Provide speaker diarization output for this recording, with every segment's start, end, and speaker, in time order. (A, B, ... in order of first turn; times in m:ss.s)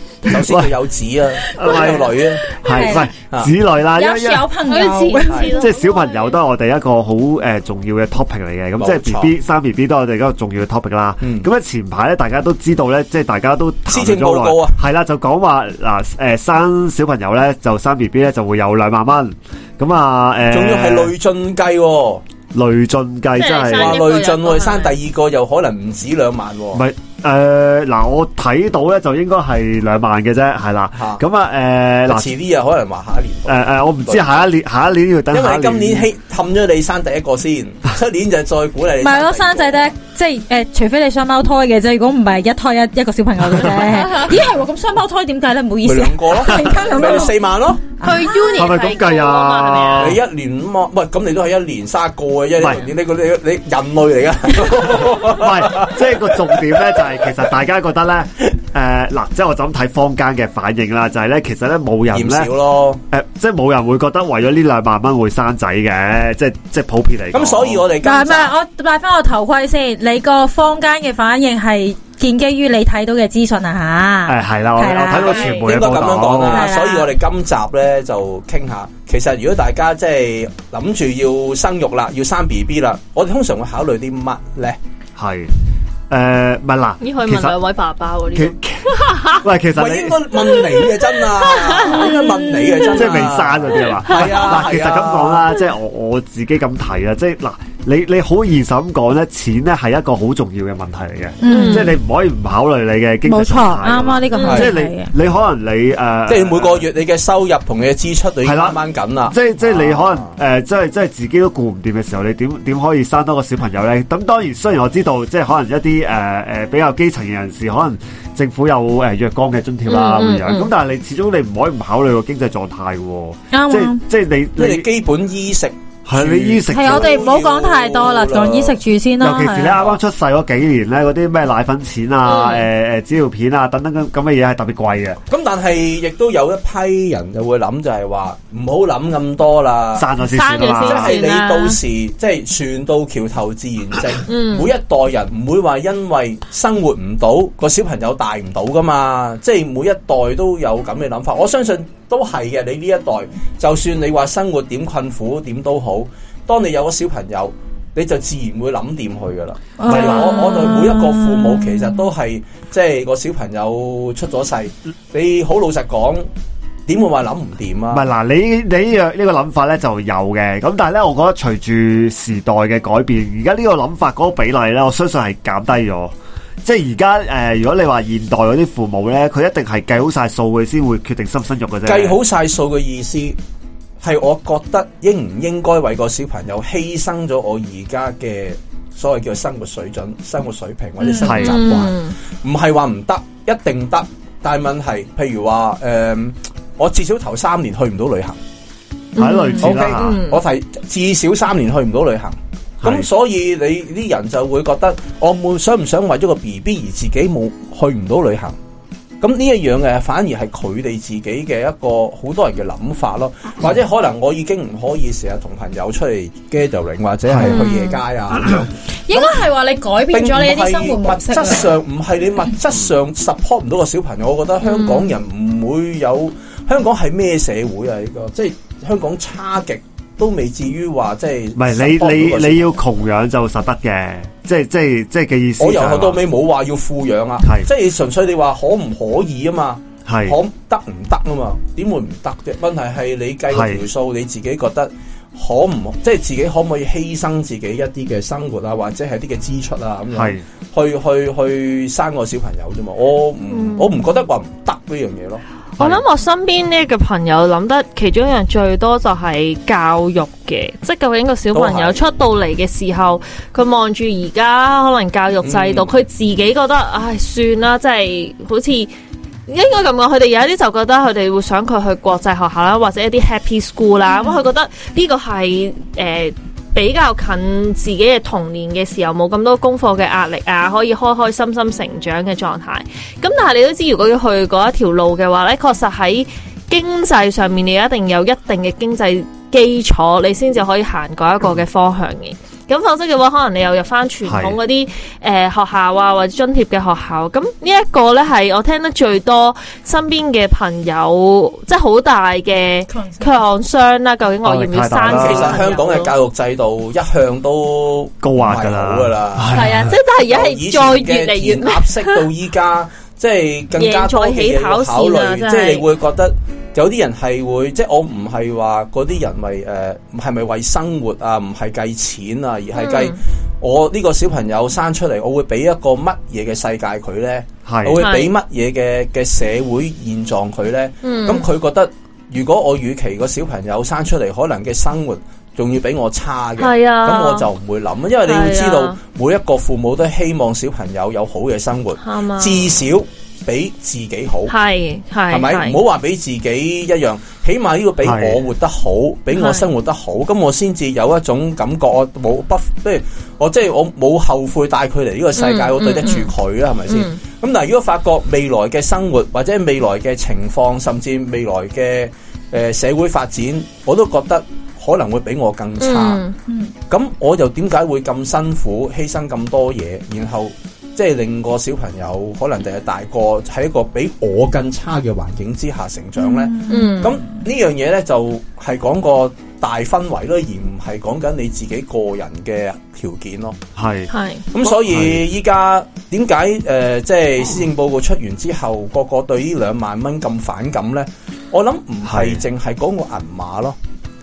0:00.2-0:03.5 A
0:00.3-0:00.7 B
0:01.5-0:04.5 B
0:01.5-0:03.1 C
0:04.0-0:05.6 C
0:04.6-0:06.4 D
0:05.3-0:05.5 A
0:05.5-0:21.1 B
0:08.8-0:09.3 A
0:11.2-0:11.4 A
0:13.9-0:14.8 A
0:20.5-0:22.2 A
0:22.5-0:24.0 B
0:23.4-0:25.0 D
0:23.7-0:26.8 A
0:26.7-0:32.3 B
0:30.9-0:31.2 A
0:32.1-0:34.5 A
0:33.5-0:36.1 B
0:35.3-0:39.9 A
0:39.0-0:47.4 C
0:45.8-0:47.8 A
0:48.0-0:48.4 C
0:48.0-0:50.2 D
0:48.5-0:50.2 B
0:50.0-0:57.1 A
0:55.1-1:02.5 B
1:02.1-1:03.0 A
1:03.1-1:07.8 B
1:07.3-1:08.5 A
1:08.0-1:15.7 C
1:14.2-1:16.7 B
1:15.1-1:24.8 A
1:16.5-1:17.1 C
1:25.2-1:25.5 B
1:26.1-1:27.6 B
1:27.0-1:29.4 D
1:28.3-1:30.2 B
1:29.8-1:35.5 A
1:30.5-1:32.2 D
1:31.9-1:33.0 C
1:32.9-1:46.8 B
1:33.0-1:33.3 D
1:33.9-1:34.7 D
1:41.4-1:42.0 C
1:41.4-1:42.0 D
1:43.2-1:45.1 C
1:44.3-1:44.6 D
1:44.4-1:44.7 A
1:46.3-1:50.4 A
1:48.4-2:04.9 B
1:59.8-2:00.7 D
2:03.5-2:04.0 C
2:04.6-2:08.8 A
2:06.0-2:07.2 B
2:06.7-2:09.8 C
2:09.2-2:15.2 B
2:09.7-2:10.0 A
2:12.2-2:12.7 D
2:15.3-2:20.1 A
2:20.0-2:21.2 B
2:20.3-2:21.8 D
2:20.8-2:46.3 A
2:24.2-2:24.7 D
2:39.8-2:42.0 C
2:39.9-2:40.2 B
2:40.2-2:40.8 D
2:46.9-2:48.0 A
2:47.9-3:02.2 B
3:01.8-3:03.4 A
3:04.0-3:18.4 A
3:11.0-3:11.4 C
3:11.2-3:11.6 B
3:11.3-3:12.1 D
3:19.1-3:20.4 D
3:19.2-3:20.2 B
3:19.6-3:28.6 A
3:29.2-3:39.3 A
3:37.4-3:38.0 D
3:39.1-3:41.7 C
3:40.1-3:52.8 A
3:44.6-3:45.2 D
3:51.6-3:56.2 B
3:55.6-4:15.4 A
4:00.1-4:00.4 B
4:03.5-4:03.8 B
4:10.1-4:10.4 B
4:13.5-4:14.0 D
4:15.8-4:28.9 D
4:21.5-4:22.0 A
4:25.4-4:25.9 A
4:29.5-5:06.1 D
4:34.1-4:34.4 C
4:54.2-4:54.6 B
5:02.9-5:03.4 C
5:04.4-5:05.6 B
5:05.1-5:09.7 A
5:08.2-5:10.0 B
5:09.5-5:12.2 D
5:10.2-5:44.5 A
5:13.8-5:15.9 D
5:22.7-5:23.2 D
5:27.7-5:28.0 B
5:27.9-5:28.3 D
5:31.0-5:31.5 D
5:36.6-5:37.5 D
5:38.2-5:39.0 D
5:42.0-5:42.7 D
5:44.5-5:45.8 D
5:45.3-6:06.2 A
5:48.0-5:48.4 B
5:49.3-5:49.7 D
5:55.4-5:56.3 D
5:56.9-5:57.2 D
6:05.8-6:06.3 D
6:06.5-6:06.7 C
6:06.9-6:23.6 A
6:16.2-6:17.2 C
6:16.7-6:17.2 D
6:23.8-6:24.1 B
6:24.1-6:24.5 D
6:24.5-6:33.8 A
6:24.7-6:25.2 B
6:32.0-6:32.4 B